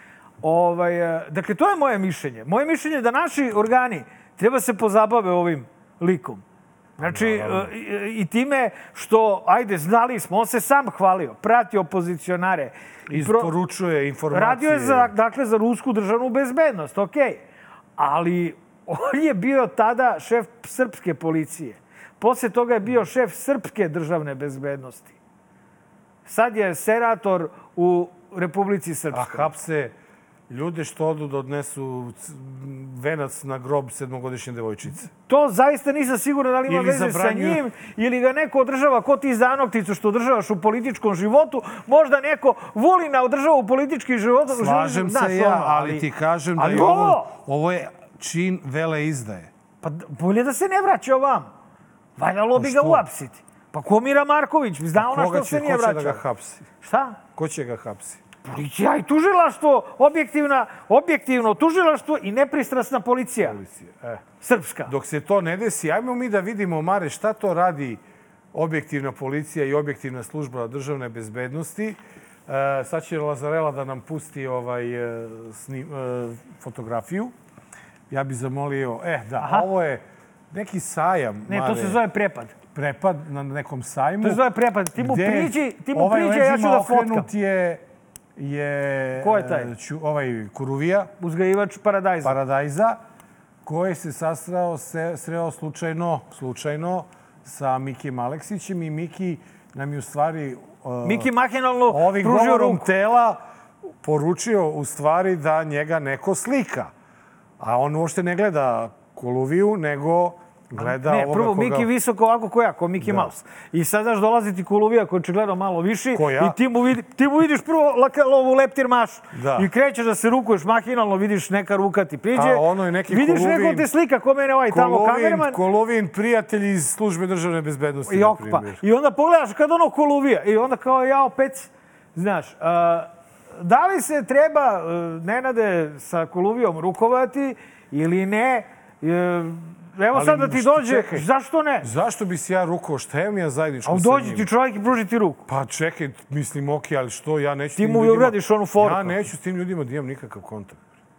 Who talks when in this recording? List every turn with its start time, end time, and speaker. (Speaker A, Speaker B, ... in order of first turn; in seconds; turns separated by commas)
Speaker A: 0.4-6.4, Speaker B: 7.0-7.7, Speaker A: 7.0-13.5, Speaker B: 13.1-15.1, Speaker A: 14.3-17.4, Speaker A: 18.0-25.2, Speaker A: 26.2-29.5, Speaker B: 29.1-29.9, Speaker B: 30.5-35.1, Speaker A: 35.3-46.0, Speaker B: 36.7-37.6, Speaker B: 44.5-49.5, Speaker A: 46.6-47.3, Speaker A: 49.8-51.5, Speaker A: 52.2-56.2, Speaker B: 52.6-53.0, Speaker B: 55.0-56.7, Speaker A: 56.8-57.2, Speaker B: 57.4-58.2, Speaker A: 58.4-63.6, Speaker B: 63.4-64.2, Speaker A: 64.4-64.9, Speaker B: 64.9-68.0, Speaker B: 68.5-77.3, Speaker B: 78.1-82.0, Speaker A: 79.4-79.7, Speaker A: 81.5-82.5, Speaker B: 82.7-84.4, Speaker A: 84.2-87.3, Speaker B: 85.0-87.8, Speaker B: 88.4-91.1, Speaker A: 89.2-89.7, Speaker A: 91.2-92.3, Speaker B: 92.2-93.0, Speaker B: 93.7-101.3, Speaker A: 101.0-102.9, Speaker B: 101.9-103.4, Speaker B: 104.0-106.9, Speaker B: 107.6-111.9, Speaker A: 110.8-125.6, Speaker B: 113.0-113.3, Speaker B: 116.1-116.6, Speaker B: 119.3-119.7, Speaker B: 122.3-123.9, Speaker B: 124.7-128.8, Speaker A: 128.1-141.9, Speaker B: 140.1-141.3, Speaker B: 141.8-144.5, Speaker A: 143.8-145.4, Speaker B: 145.5-150.8, Speaker A: 147.8-149.2